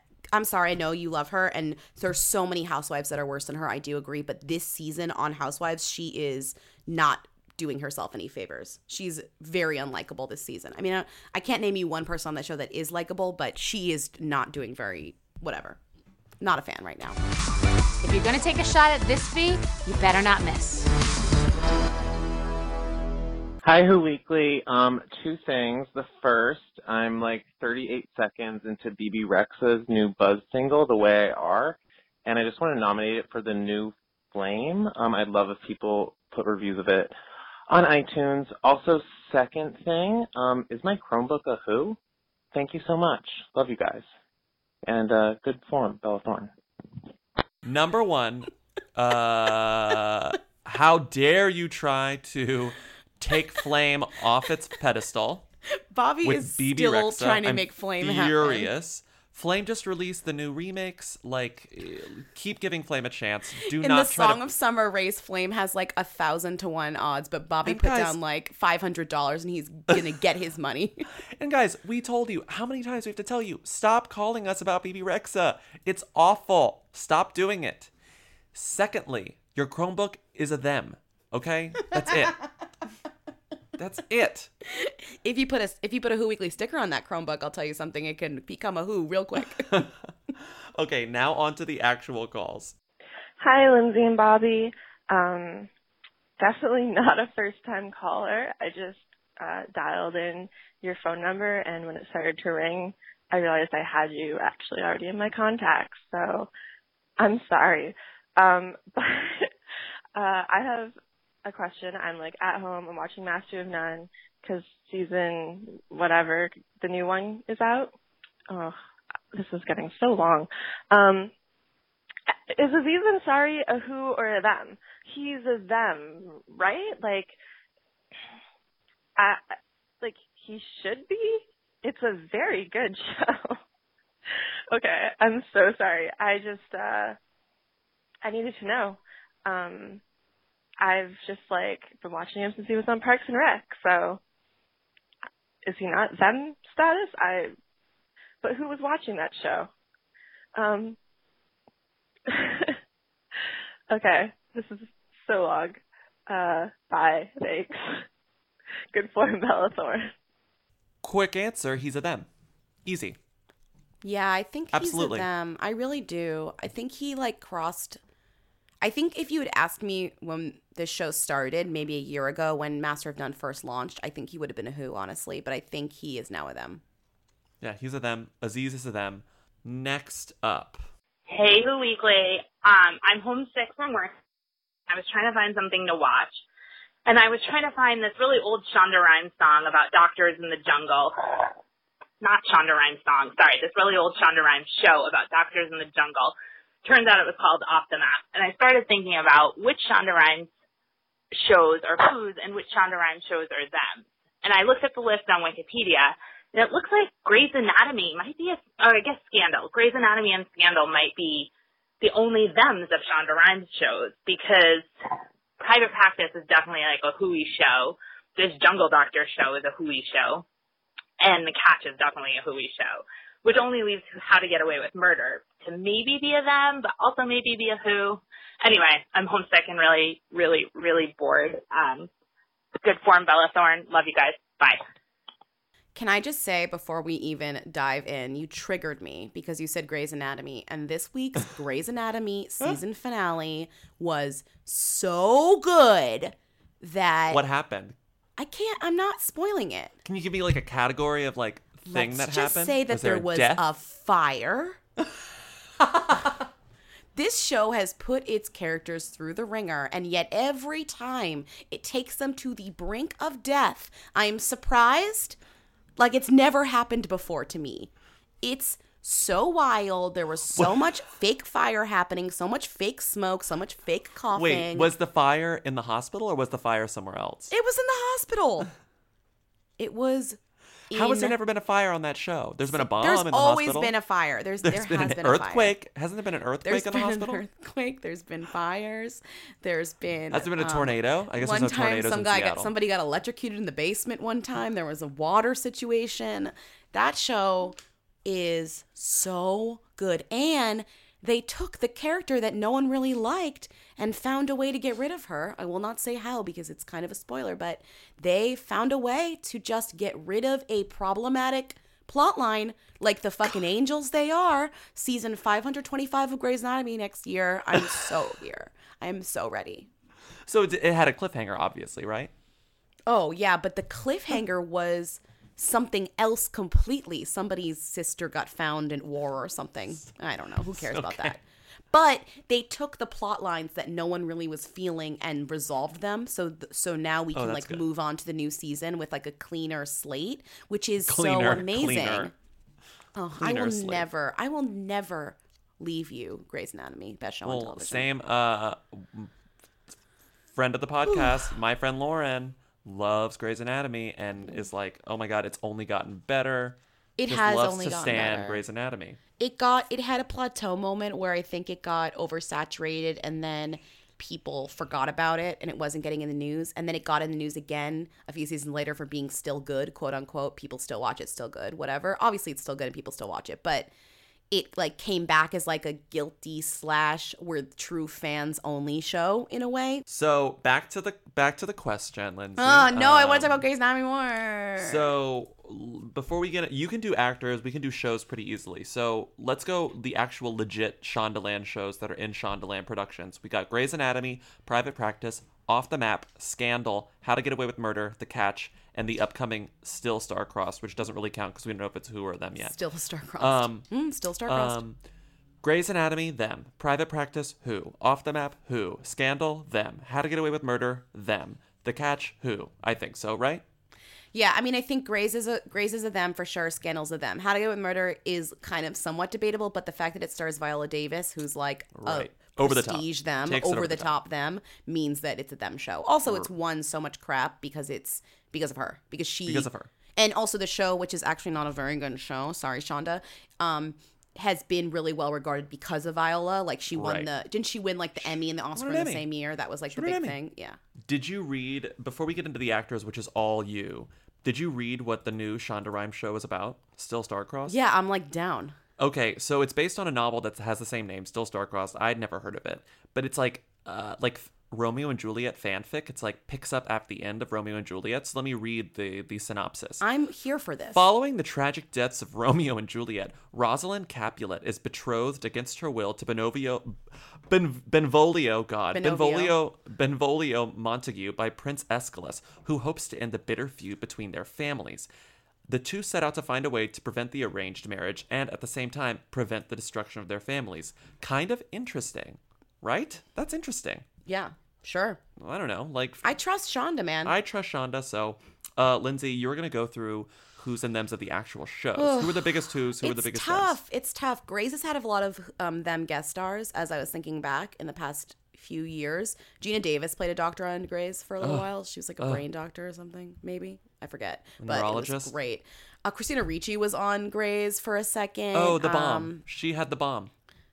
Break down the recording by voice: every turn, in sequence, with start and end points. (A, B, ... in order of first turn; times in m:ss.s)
0:00.3-0:15.8 A
0:16.4-0:17.2 A
0:18.0-0:20.9 B
0:23.6-0:37.1 C
0:37.7-0:42.0 C
0:42.5-0:44.0 C
0:44.9-0:46.5 C
0:47.6-0:55.5 D
0:55.9-0:58.7 A
0:56.2-1:04.4 D
1:03.6-1:11.1 A
1:07.6-1:08.2 D
1:11.4-1:17.9 D
1:18.5-1:22.4 D
1:23.8-1:24.5 D
1:24.7-1:29.9 A
1:29.6-1:32.8 D
1:33.4-1:35.7 E
1:36.4-1:46.5 E
1:47.2-1:49.5 E
1:50.2-1:57.9 E
1:58.5-1:58.8 E
1:59.3-2:01.3 E
2:02.3-2:07.4 E
2:09.2-2:13.6 E
2:14.7-2:17.2 E
2:18.2-2:20.0 E
2:20.8-2:24.2 E
2:25.6-2:27.6 E
2:28.4-2:29.7 E
2:30.6-2:31.0 E
2:32.3-2:32.8 E
2:33.9-2:38.0 E
2:38.9-2:40.1 E
2:41.0-2:42.3 D
2:42.8-2:43.2 D
2:44.0-2:48.0 A
2:44.7-2:45.3 D
2:48.8-2:56.8 A
2:57.6-3:00.9 D
3:01.3-3:04.1 F
3:04.9-3:06.4 F
3:07.1-3:11.5 F
3:12.2-3:20.5 F
3:21.3-3:34.9 F
3:35.6-3:40.4 F
3:41.2-3:52.1 F
3:52.8-3:54.8 F
3:56.0-4:07.4 A
4:07.3-4:08.0 D
4:08.4-4:10.0 A
4:10.0-4:13.6 D
4:11.8-4:14.8 A
4:17.2-4:25.4 A
4:26.0-4:27.9 A
4:28.4-4:34.9 A
4:30.5-4:30.9 D
4:34.3-4:37.5 D
4:37.5-4:38.7 A
4:39.8-4:40.4 A
4:40.9-4:41.4 A
4:40.9-4:44.0 D
4:42.7-4:45.8 A
4:44.6-4:47.4 D
4:46.6-5:19.9 A
4:50.3-4:52.7 D
5:17.8-5:18.0 D
5:20.5-5:22.3 D
5:23.1-5:42.3 A
5:30.7-5:31.4 D
5:37.3-5:37.8 D
5:41.0-5:42.3 D
5:43.2-5:48.1 A
5:43.4-5:44.1 D
5:47.4-5:49.3 D
5:50.5-5:59.2 D
5:51.0-5:51.5 A
5:57.2-5:58.6 A
5:59.4-6:13.9 A
6:14.5-6:20.0 A
6:20.1-6:23.6 D
6:22.6-6:25.1 A
6:24.8-6:42.8 D
6:42.6-6:44.8 A
6:43.4-6:43.9 D
6:44.5-6:45.0 D
6:45.6-6:53.6 D
6:54.3-7:20.8 A
7:02.0-7:04.1 D
7:06.2-7:06.5 D
7:09.5-7:09.9 D
7:16.9-7:17.3 D
7:18.2-7:19.2 D
7:19.9-7:20.4 D
7:21.0-7:27.8 D
7:27.7-7:28.8 A
7:29.0-7:40.0 D
7:40.0-7:41.0 A
7:40.9-7:55.1 D
7:48.9-7:49.6 A
7:55.7-8:04.1 D
8:04.3-8:05.2 A
8:05.4-8:06.3 D
8:06.2-8:07.3 A
8:07.2-8:13.8 D
8:12.0-8:29.4 A
8:21.4-8:22.4 D
8:24.6-8:25.3 D
8:28.5-8:30.3 D